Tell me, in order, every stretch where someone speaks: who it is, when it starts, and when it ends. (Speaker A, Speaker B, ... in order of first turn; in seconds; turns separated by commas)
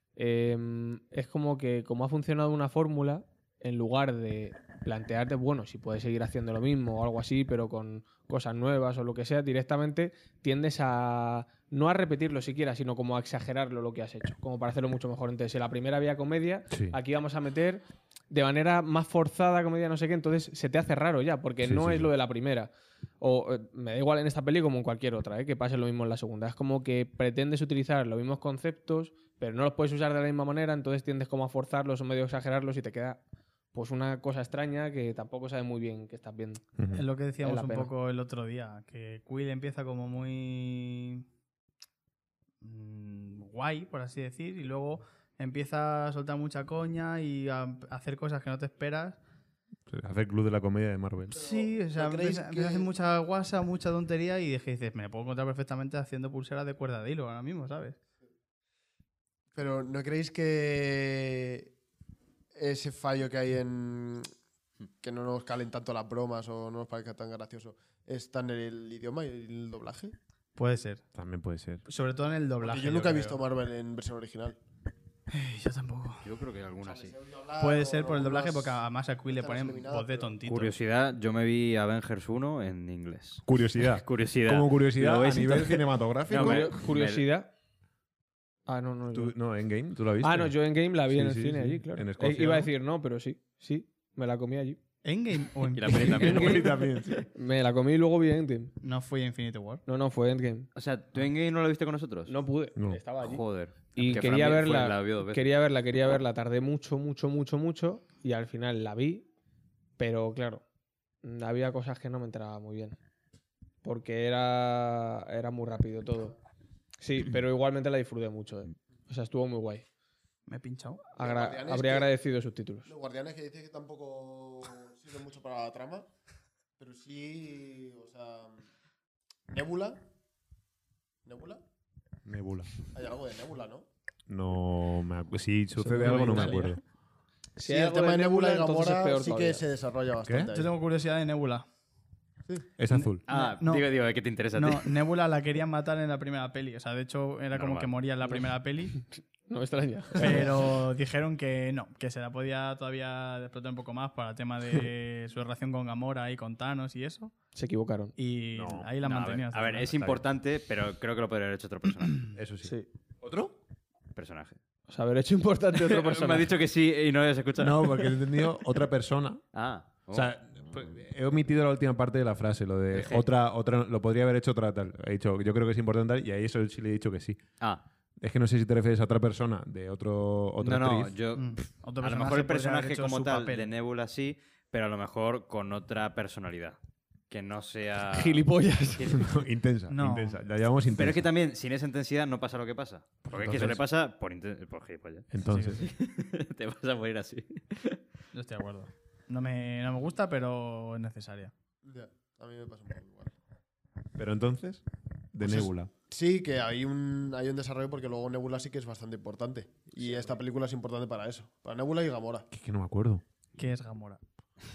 Speaker A: 0.2-33.2, Speaker B: 16.7-17.0, Speaker B: 21.6-22.1, Speaker A: 33.7-36.6, Speaker B: 36.8-37.0, Speaker C: 36.9-41.2, Speaker A: 37.4-37.9, Speaker C: 42.6-49.2, Speaker B: 49.9-51.4, Speaker C: 51.3-58.0, Speaker D: 51.3-52.9, Speaker D: 59.5-61.7, Speaker D: 62.5-64.3, Speaker D: 65.0-70.2, Speaker C: 70.6-71.0, Speaker B: 71.2-71.8, Speaker C: 71.8-73.4, Speaker D: 72.6-74.6, Speaker C: 75.3-76.3, Speaker E: 76.2-77.2, Speaker D: 76.8-80.3, Speaker C: 77.6-80.7, Speaker E: 80.5-87.2, Speaker B: 83.5-86.8, Speaker A: 86.3-87.5, Speaker A: 88.7-89.3, Speaker B: 89.1-90.6, Speaker A: 90.2-94.8, Speaker B: 91.1-92.7, Speaker C: 95.0-96.6, Speaker E: 95.7-96.8, Speaker A: 96.0-98.7, Speaker B: 96.1-97.2, Speaker C: 98.8-99.8, Speaker A: 99.9-100.7, Speaker E: 100.8-102.3, Speaker A: 102.3-109.3, Speaker B: 102.8-103.0, Speaker E: 103.2-105.5, Speaker A: 110.0-110.6, Speaker A: 111.2-113.0, Speaker A: 113.8-116.4, Speaker A: 117.0-119.8, Speaker C: 120.5-121.0, Speaker A: 121.2-122.9, Speaker D: 121.2-122.2, Speaker D: 122.9-126.1, Speaker D: 126.8-128.6, Speaker D: 129.5-130.0, Speaker D: 131.2-131.6, Speaker B: 132.3-132.7, Speaker D: 132.8-133.9, Speaker B: 134.3-136.8, Speaker C: 135.8-136.8, Speaker A: 135.9-136.6, Speaker A: 137.6-139.6, Speaker D: 137.6-140.7, Speaker B: 140.2-140.5, Speaker C: 140.5-141.7, Speaker B: 142.8-143.2, Speaker C: 142.9-143.9, Speaker E: 143.3-145.0, Speaker C: 144.5-149.0, Speaker E: 147.5-147.9, Speaker A: 149.1-150.7, Speaker C: 150.2-157.3, Speaker A: 157.5-158.1, Speaker C: 158.2-160.0, Speaker B: 158.5-158.9, Speaker E: 159.0-162.3, Speaker B: 159.9-160.2, Speaker B: 162.4-163.6, Speaker E: 164.2-164.6, Speaker A: 164.9-166.5, Speaker E: 165.7-168.4, Speaker B: 167.6-169.4, Speaker E: 169.5-170.3, Speaker B: 170.1-177.4, Speaker E: 172.9-173.3, Speaker B: 178.2-181.1, Speaker E: 180.6-186.8, Speaker C: 181.4-183.7, Speaker E: 187.3-189.3, Speaker A: 188.1-189.2, Speaker B: 189.1-191.3, Speaker C: 189.9-190.4, Speaker E: 191.0-198.0, Speaker B: 193.3-193.8, Speaker B: 195.3-195.9, Speaker C: 195.4-195.9, Speaker C: 198.3-201.5, Speaker D: 201.8-203.3, Speaker B: 204.2-205.9, Speaker D: 205.4-212.5, Speaker B: 212.5-213.2, Speaker C: 213.6-214.2